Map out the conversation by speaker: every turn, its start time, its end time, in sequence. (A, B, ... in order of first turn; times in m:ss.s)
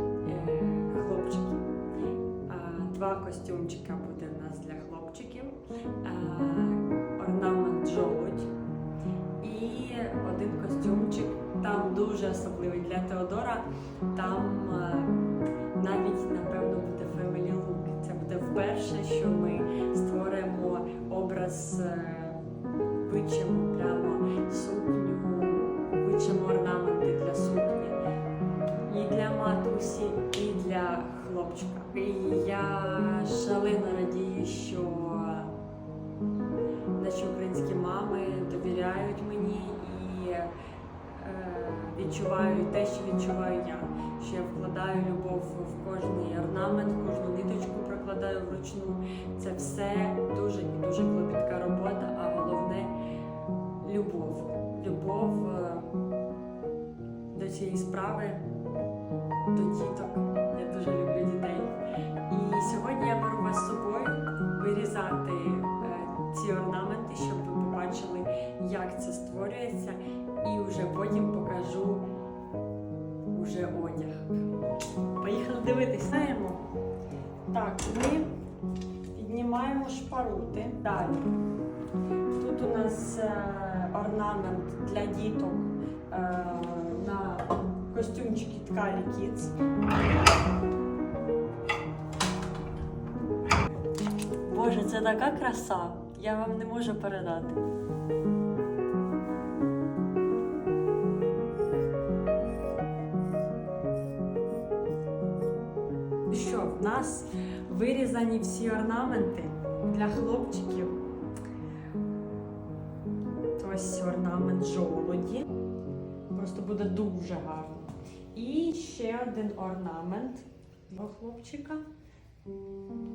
0:00.2-0:01.8 A
0:02.5-0:08.5 A
0:09.4-0:15.2 A
0:15.8-0:22.4 A
0:23.0-0:28.0 A
0:28.9-0:35.6 A
0:37.0-0:53.0 A
0:53.8-0:56.0 A
0:57.3-0:58.5 A
0:59.5-1:12.1 A
1:13.3-1:14.4 A
1:15.2-1:16.7 A
1:17.5-1:18.3 A
1:19.1-1:21.3 A
1:22.3-1:29.5 A
1:34.4-1:37.6 A
1:46.3-1:51.0 A
1:53.6-1:55.5 A
1:56.3-2:01.8 A